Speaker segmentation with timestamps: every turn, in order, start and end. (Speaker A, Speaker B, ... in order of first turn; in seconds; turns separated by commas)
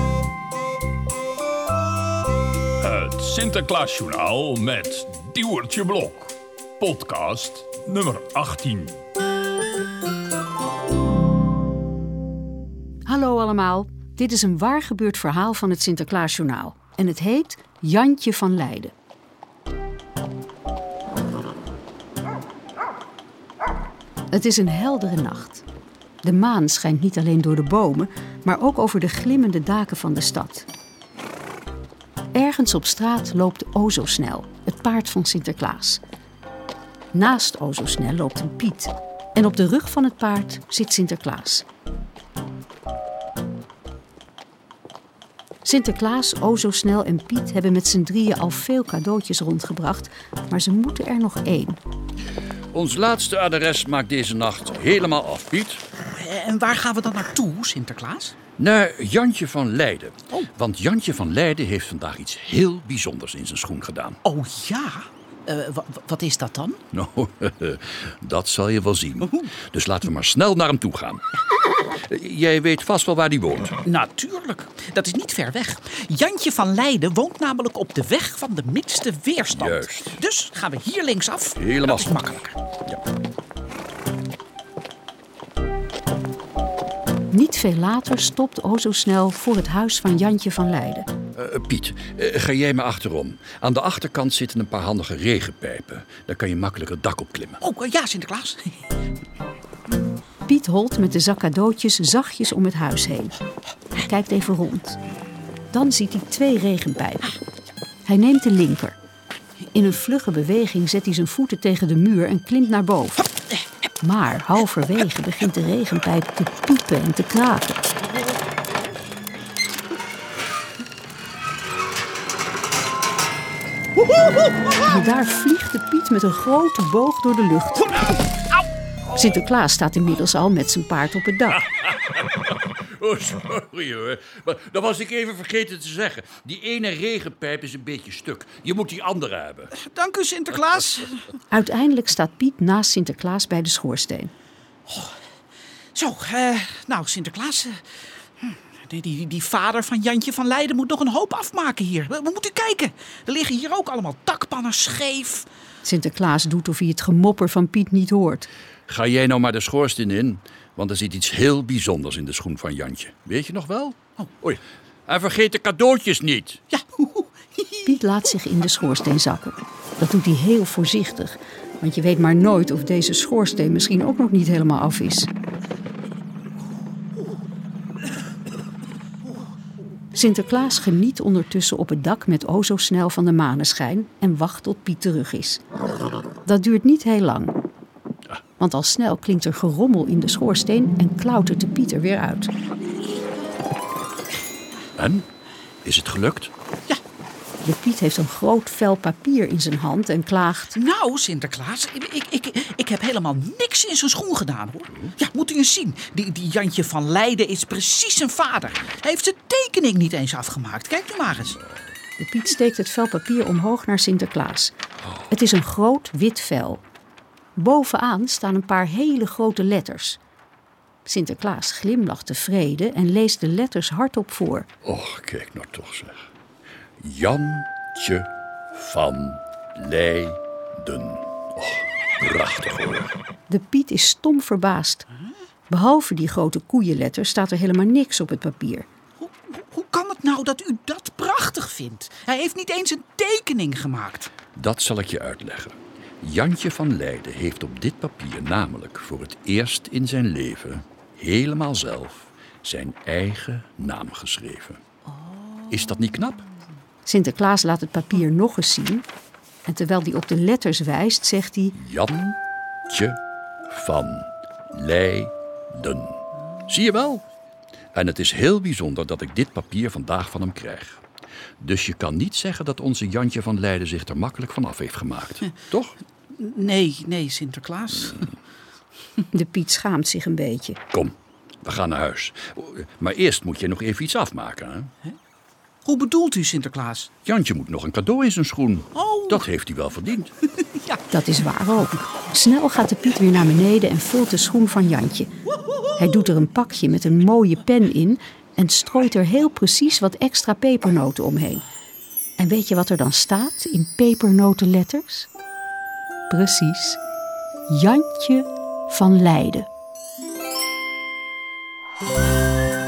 Speaker A: 2.8-9.0, Speaker B: 13.1-18.9, Speaker B: 24.3-25.6, Speaker B: 26.2-30.7, Speaker B: 32.3-36.0, Speaker B: 37.1-41.6, Speaker B: 45.6-51.8, Speaker C: 52.7-55.8, Speaker D: 56.1-58.3, Speaker C: 58.6-64.2, Speaker D: 64.2-66.8, Speaker C: 66.9-71.3, Speaker D: 69.2-69.5, Speaker C: 71.9-73.8, Speaker D: 73.8-82.5, Speaker C: 79.5-80.2, Speaker C: 81.6-82.3, Speaker B: 87.3-91.1, Speaker C: 91.3-97.6, Speaker D: 97.6-98.8, Speaker B: 100.4-103.3, Speaker B: 104.0-105.0, Speaker B: 105.7-107.3, Speaker B: 108.0-109.0, Speaker B: 109.7-113.2, Speaker B: 114.0-117.8, Speaker B: 124.8-128.1, Speaker B: 129.1-131.7, Speaker C: 131.7-139.7, Speaker D: 139.8-141.2, Speaker B: 141.5-144.3, Speaker D: 144.9-145.2, Speaker D: 145.9-147.8, Speaker D: 148.4-155.4, Speaker B: 155.8-158.5, Speaker C: 158.9-166.6, Speaker D: 166.7-167.9, Speaker B: 167.8-175.3, Speaker B: 180.1-185.6, Speaker B: 186.4-187.5, Speaker B: 188.6-192.5, Speaker C: 194.9-195.2, Speaker C: 195.8-196.5, Speaker B: 197.6-200.8, Speaker D: 200.7-211.6, Speaker B: 212.2-214.7, Speaker B: 215.3-216.8, Speaker B: 217.6-220.2, Speaker B: 221.0-224.7, Speaker C: 224.8-226.3, Speaker C: 227.0-233.1, Speaker B: 233.5-235.1, Speaker B: 235.7-238.9, Speaker D: 239.2-244.3, Speaker C: 244.5-254.8, Speaker D: 255.1-255.8, Speaker C: 255.7-256.4, Speaker B: 257.1-259.1, Speaker B: 259.6-261.8, Speaker C: 261.8-262.4, Speaker C: 262.9-267.2, Speaker C: 267.9-271.0, Speaker C: 271.6-276.0, Speaker D: 276.3-278.3, Speaker B: 279.3-280.8, Speaker C: 280.9-284.9, Speaker D: 285.8-287.1, Speaker C: 287.2-290.3, Speaker D: 288.9-289.4, Speaker D: 290.5-291.0, Speaker B: 291.1-295.3, Speaker B: 296.0-301.6, Speaker B: 302.4-305.3, Speaker B: 306.3-307.0, Speaker B: 307.7-309.7